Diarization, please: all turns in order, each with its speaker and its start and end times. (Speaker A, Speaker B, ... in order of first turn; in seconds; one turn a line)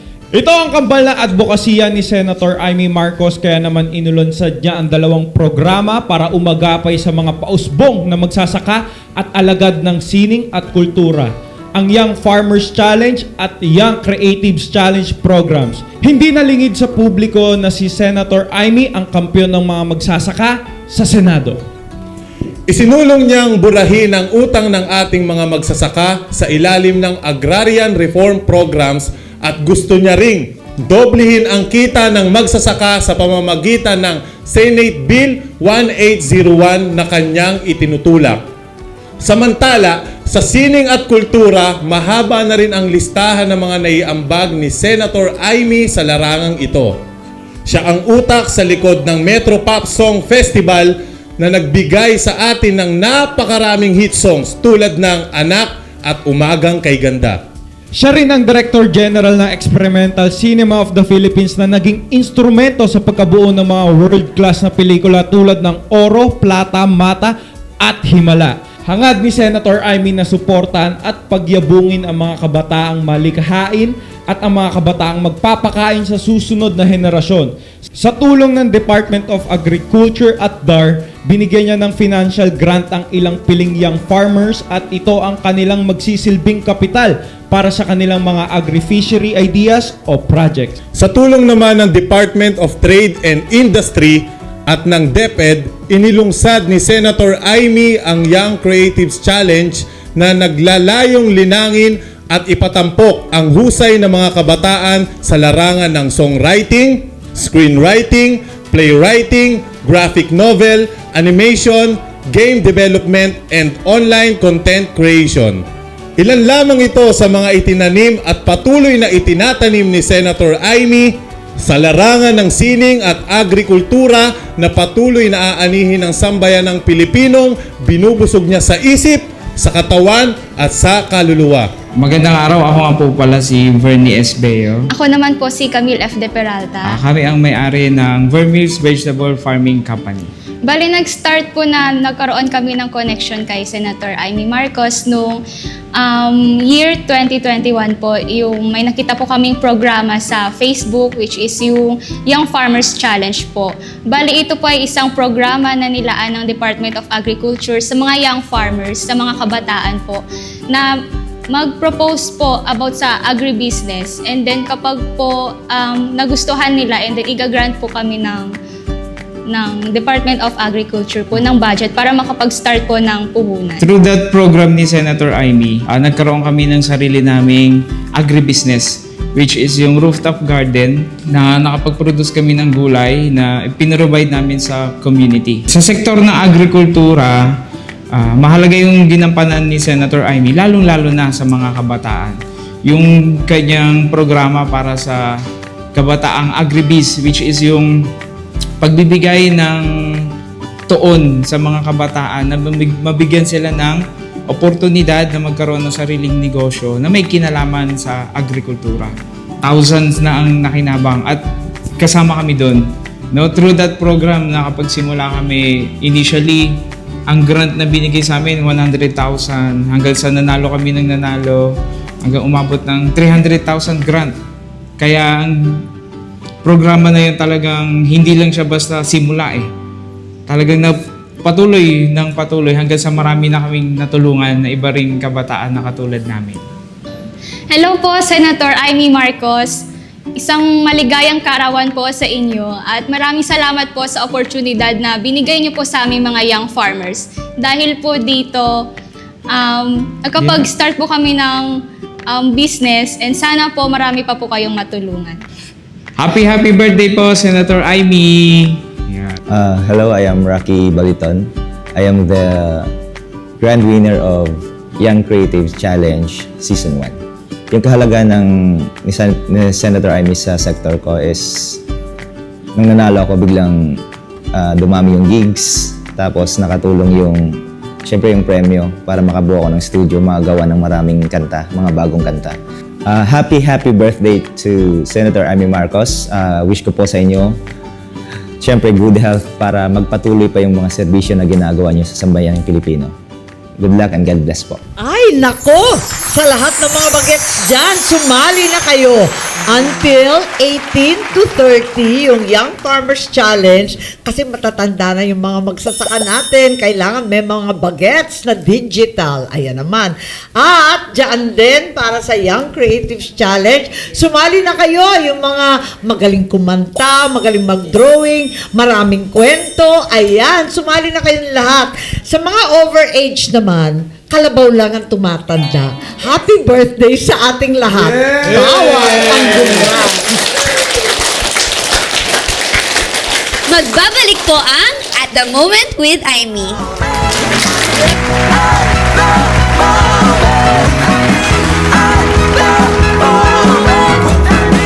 Speaker A: 0.3-21.6
Speaker B: 22.7-38.4
Speaker B: 39.2-46.9
Speaker B: 47.6-57.4
Speaker A: 57.9-90.8
Speaker B: 90.9-115.6
Speaker B: 116.2-121.1
Speaker B: 121.6-131.7
Speaker C: 132.0-134.9
Speaker D: 134.9-137.0
Speaker C: 136.8-140.3
Speaker D: 140.6-145.4
Speaker D: 145.9-160.9
Speaker D: 161.5-168.5
Speaker D: 169.5-173.8
Speaker C: 173.8-187.5
Speaker C: 188.1-195.3
Speaker C: 195.9-198.0
Speaker C: 198.8-200.3
Speaker C: 200.9-211.4
Speaker C: 212.0-212.8
Speaker C: 213.3-216.7
Speaker C: 217.3-221.7
Speaker C: 222.2-224.3
Speaker C: 225.0-225.8
Speaker C: 226.6-229.7
Speaker C: 230.5-236.6
Speaker D: 237.7-248.9
Speaker D: 249.5-255.4
Speaker C: 250.3-250.7
Speaker C: 256.2-259.4
Speaker E: 259.5-262.9
Speaker E: 263.6-267.2
Speaker E: 267.7-271.8
Speaker E: 272.8-274.0
Speaker E: 274.5-287.6
Speaker E: 288.6-293.1
Speaker E: 293.8-294.8
Speaker F: 295.0-330.2
Speaker G: 333.7-336.7